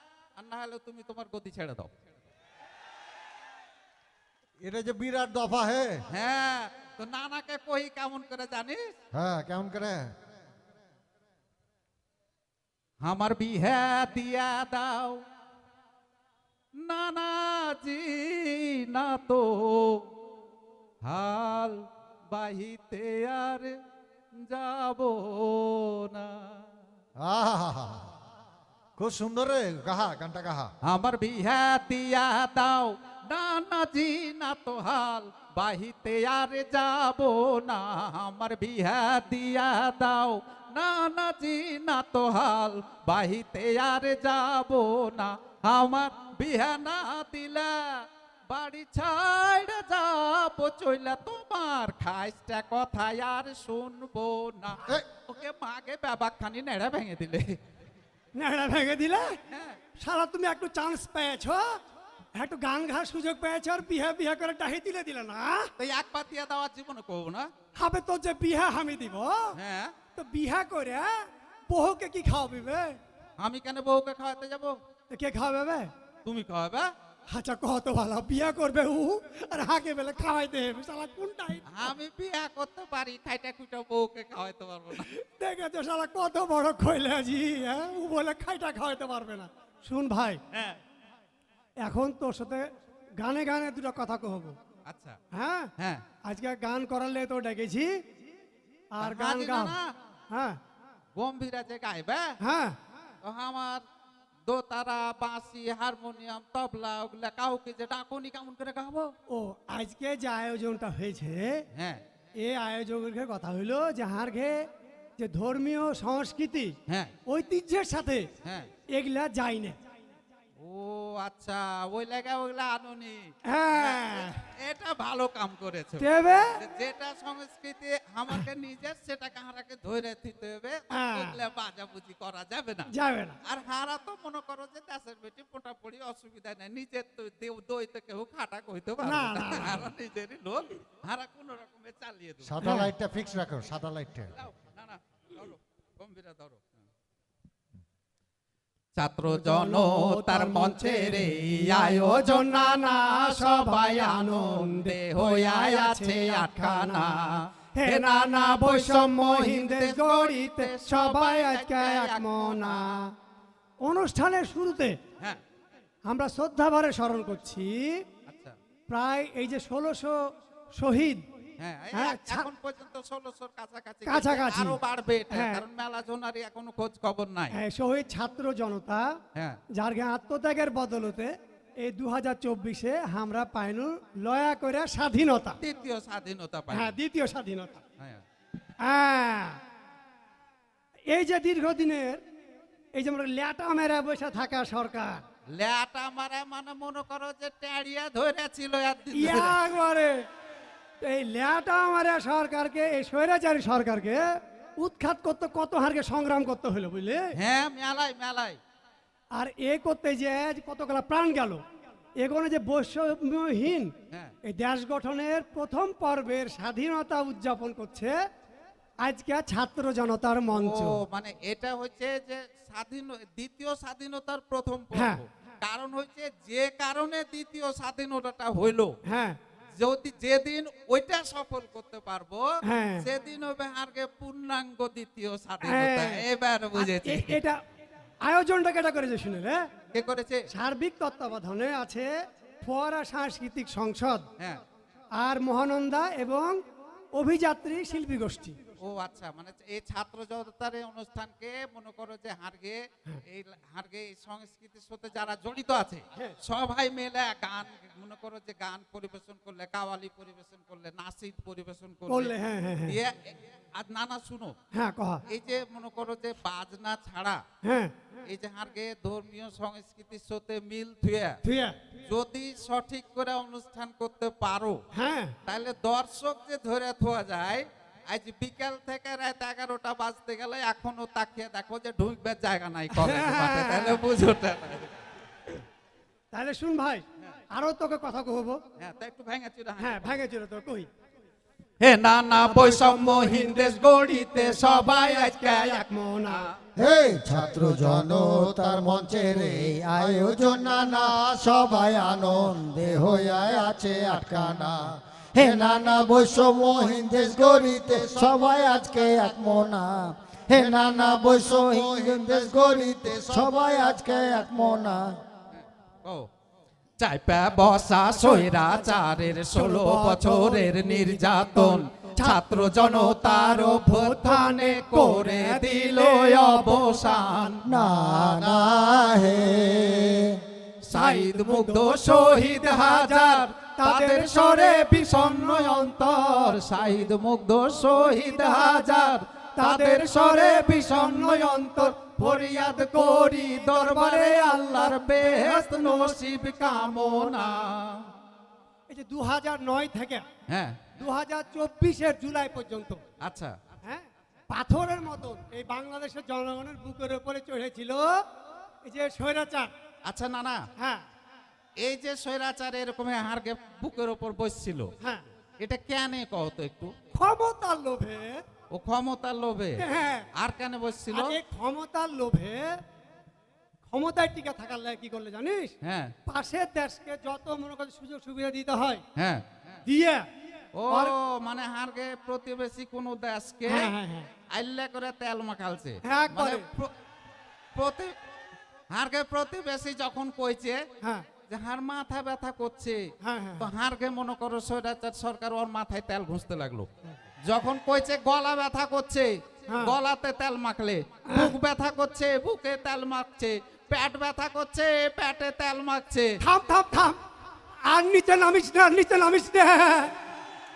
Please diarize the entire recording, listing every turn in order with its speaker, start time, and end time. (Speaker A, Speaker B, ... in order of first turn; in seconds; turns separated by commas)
Speaker A: 0.4-1.9, Speaker B: 4.6-6.0, Speaker A: 6.1-8.8, Speaker B: 9.1-10.1, Speaker A: 13.0-15.2, Speaker A: 16.8-20.1, Speaker A: 21.0-23.8, Speaker A: 24.4-26.7, Speaker B: 27.2-28.1, Speaker B: 29.0-30.7, Speaker A: 30.8-57.6, Speaker C: 58.4-59.4, Speaker A: 59.5-59.8, Speaker C: 60.0-61.8, Speaker C: 62.3-65.7, Speaker A: 65.8-67.5, Speaker C: 67.8-69.5, Speaker A: 69.6-69.9, Speaker C: 70.1-73.0, Speaker A: 73.4-74.8, Speaker C: 75.1-75.9, Speaker A: 76.2-76.9, Speaker C: 77.3-82.0, Speaker A: 81.7-85.1, Speaker C: 84.9-90.4, Speaker A: 90.5-90.8, Speaker C: 91.8-92.7, Speaker C: 93.2-94.6, Speaker A: 94.9-95.2, Speaker C: 95.3-95.7, Speaker C: 96.2-97.9, Speaker C: 98.9-99.8, Speaker A: 99.0-99.9, Speaker C: 100.3-100.6, Speaker A: 101.2-102.3, Speaker C: 102.4-102.8, Speaker A: 103.2-103.8, Speaker A: 104.5-109.1, Speaker C: 109.3-111.6, Speaker A: 111.8-112.0, Speaker C: 112.4-114.7, Speaker C: 115.2-116.8, Speaker A: 116.9-117.1, Speaker C: 117.3-118.3, Speaker A: 118.4-118.7, Speaker C: 118.9-119.8, Speaker A: 120.6-132.9, Speaker C: 123.5-124.3, Speaker C: 126.0-126.5, Speaker C: 130.9-131.4, Speaker C: 132.9-133.4, Speaker A: 133.5-142.6, Speaker C: 139.0-139.9, Speaker B: 142.4-144.3, Speaker C: 142.6-142.9, Speaker A: 144.4-146.8, Speaker A: 149.0-162.9, Speaker C: 149.3-157.2, Speaker C: 157.8-163.2, Speaker C: 163.8-165.0, Speaker C: 166.1-168.0, Speaker A: 168.3-168.6, Speaker C: 168.9-170.2, Speaker C: 170.7-171.3, Speaker A: 171.6-177.6, Speaker C: 171.9-172.5, Speaker C: 174.1-175.6, Speaker C: 177.5-179.2, Speaker C: 179.7-185.6, Speaker A: 185.6-186.9, Speaker C: 186.7-187.8, Speaker C: 188.8-189.6, Speaker C: 191.1-192.2, Speaker C: 192.9-195.2, Speaker A: 195.5-199.6, Speaker C: 199.1-200.3, Speaker C: 201.0-207.3, Speaker A: 207.3-208.6, Speaker C: 209.3-211.6, Speaker C: 212.2-218.1, Speaker C: 219.0-221.0, Speaker A: 220.5-228.9, Speaker C: 224.9-225.2, Speaker C: 229.1-229.4, Speaker A: 229.8-237.4, Speaker C: 232.6-233.1, Speaker C: 235.6-237.6, Speaker C: 238.2-239.6, Speaker A: 239.9-240.4, Speaker C: 240.5-242.1, Speaker C: 242.6-244.3, Speaker C: 245.2-246.6, Speaker C: 247.1-248.6, Speaker A: 248.8-262.4, Speaker C: 262.1-263.0, Speaker A: 262.9-264.6, Speaker C: 264.7-265.2, Speaker A: 265.3-267.4, Speaker C: 267.6-268.0, Speaker A: 268.3-271.4, Speaker C: 271.4-271.8, Speaker A: 272.1-274.8, Speaker C: 274.9-275.4, Speaker A: 275.5-284.9, Speaker C: 282.9-284.0, Speaker C: 286.3-288.6, Speaker A: 288.8-290.2, Speaker C: 289.8-290.9, Speaker A: 291.8-296.6, Speaker C: 292.4-293.6, Speaker C: 295.4-296.5, Speaker D: 296.8-315.2, Speaker B: 307.3-308.3, Speaker B: 310.5-313.9, Speaker A: 315.6-316.3, Speaker A: 317.0-327.7, Speaker C: 318.1-318.6, Speaker C: 319.5-327.3, Speaker D: 327.6-330.4, Speaker B: 328.3-328.6, Speaker A: 330.8-348.1, Speaker C: 330.9-336.6, Speaker C: 338.4-338.8, Speaker C: 339.6-346.2, Speaker C: 348.9-350.2, Speaker A: 350.5-350.9, Speaker C: 350.9-353.0, Speaker A: 353.2-353.6, Speaker C: 353.8-358.2, Speaker C: 358.8-359.7, Speaker A: 360.1-360.6, Speaker C: 360.8-361.1, Speaker A: 361.8-364.9, Speaker C: 365.0-365.3, Speaker A: 365.6-366.9, Speaker C: 367.1-368.4, Speaker A: 368.7-369.8, Speaker C: 369.8-370.3, Speaker A: 370.4-371.4, Speaker C: 371.1-372.7, Speaker C: 373.9-375.7, Speaker A: 375.8-376.1, Speaker C: 376.3-379.0, Speaker A: 379.2-379.8, Speaker C: 379.9-380.3, Speaker A: 380.8-383.9, Speaker C: 383.7-384.3, Speaker A: 384.5-386.9, Speaker C: 386.0-386.6, Speaker A: 387.8-388.1, Speaker A: 388.9-390.8, Speaker C: 391.0-391.3, Speaker A: 391.5-393.0, Speaker C: 393.2-393.7, Speaker A: 393.6-396.9, Speaker A: 397.5-406.3, Speaker C: 399.7-400.0, Speaker C: 401.3-401.5, Speaker C: 406.4-407.2, Speaker C: 407.9-410.2